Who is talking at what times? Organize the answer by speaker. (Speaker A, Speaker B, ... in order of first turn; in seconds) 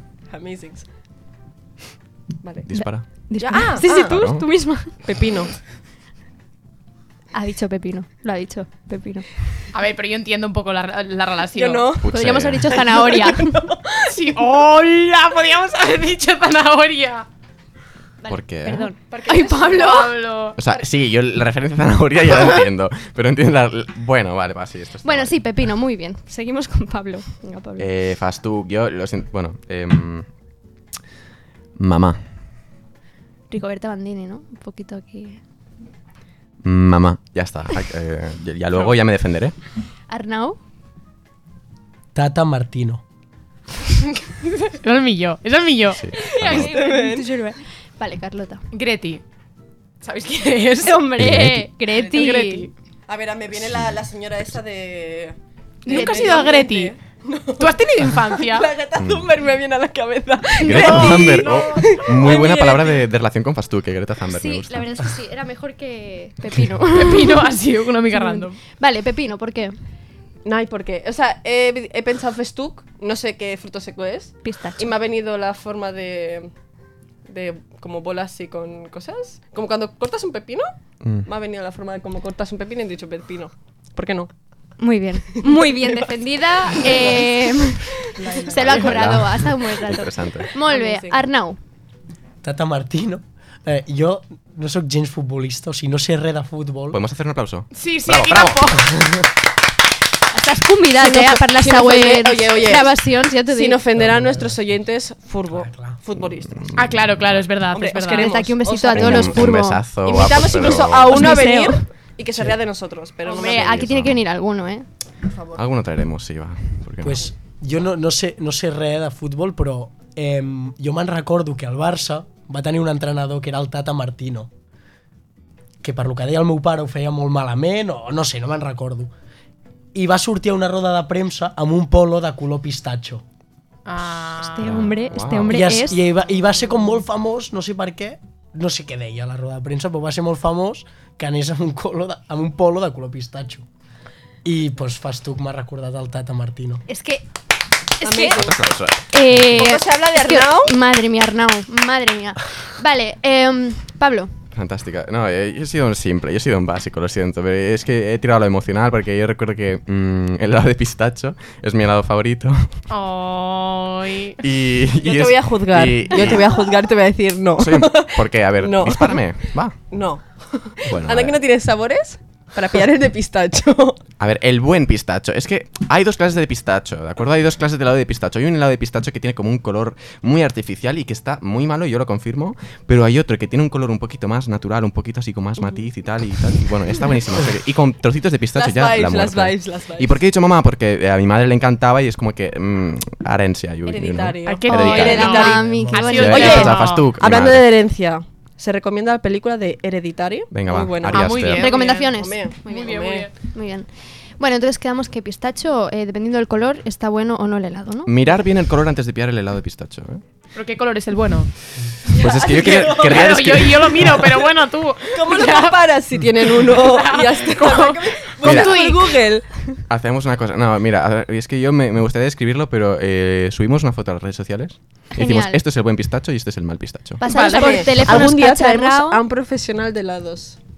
Speaker A: 0.3-0.8, 3.4-4.2, 5.0-5.5, 11.5-12.2, 12.7-14.2, 19.1-20.1, 46.5-47.3, 52.0-52.2, 53.1-63.1, 70.4-76.5, 77.3-80.7, 81.2-84.3, 85.3-86.1, 86.7-89.1, 90.4-91.2, 101.0-106.7, 107.7-113.9, 115.2-115.6, 148.0-148.6, 149.5-150.8, 165.0-169.2, 169.9-174.0, 188.5-190.2, 193.8-203.3, 212.2-213.4, 215.1-219.4, 227.4-230.6
Speaker B: 2.6-3.0, 3.9-4.5, 12.0-12.9, 18.3-18.9, 20.6-25.3, 27.8-30.3, 31.8-32.2, 36.6-39.5, 46.0-46.7, 51.2-51.7, 53.7-54.0, 59.0-59.3, 60.6-65.1, 81.0-81.3, 88.5-90.5, 96.9-99.2, 106.2-107.5, 108.9-111.3, 113.5-114.2, 115.5-117.2, 134.6-135.8, 148.3-149.6, 154.5-162.7, 164.4-166.7, 167.6-169.8, 170.9-171.4, 174.2-195.5, 196.2-197.8, 200.5-201.7, 208.1-210.2, 212.1-214.2, 218.4-218.8, 219.9-227.2
Speaker C: 2.7-4.9, 7.3-9.2, 12.0-13.7, 18.2-20.1, 25.0-27.9, 33.5-35.4, 40.1-40.6, 46.1-48.6, 50.8-52.7, 55.9-56.5, 64.3-67.5, 68.1-69.7, 74.4-74.9, 84.8-91.6, 100.3-103.8, 108.1-109.8, 111.0-111.8, 113.2-114.8, 134.4-136.0, 146.9-147.2, 148.0-148.5, 149.1-154.3, 194.7-196.8, 201.6-202.4, 203.5-208.1, 225.2-225.6, 227.2-229.2
Speaker D: 9.7-11.9, 14.1-17.3, 19.7-20.6, 44.7-46.1, 48.7-49.2, 50.0-51.1, 52.0-52.7, 55.8-56.9, 57.6-58.7, 60.8-61.6, 67.0-68.6, 97.7-99.0, 106.8-108.3, 133.8-134.7, 162.9-164.4, 194.5-197.1, 201.1-202.1, 202.6-203.3, 210.5-211.5, 212.4-219.2, 227.2-228.3
Speaker E: 42.1-43.0, 92.4-97.0, 103.9-104.9, 105.5-106.0, 117.0-124.5, 125.8-129.1, 129.9-133.2, 135.4-143.7, 144.4-146.8, 195.6-196.2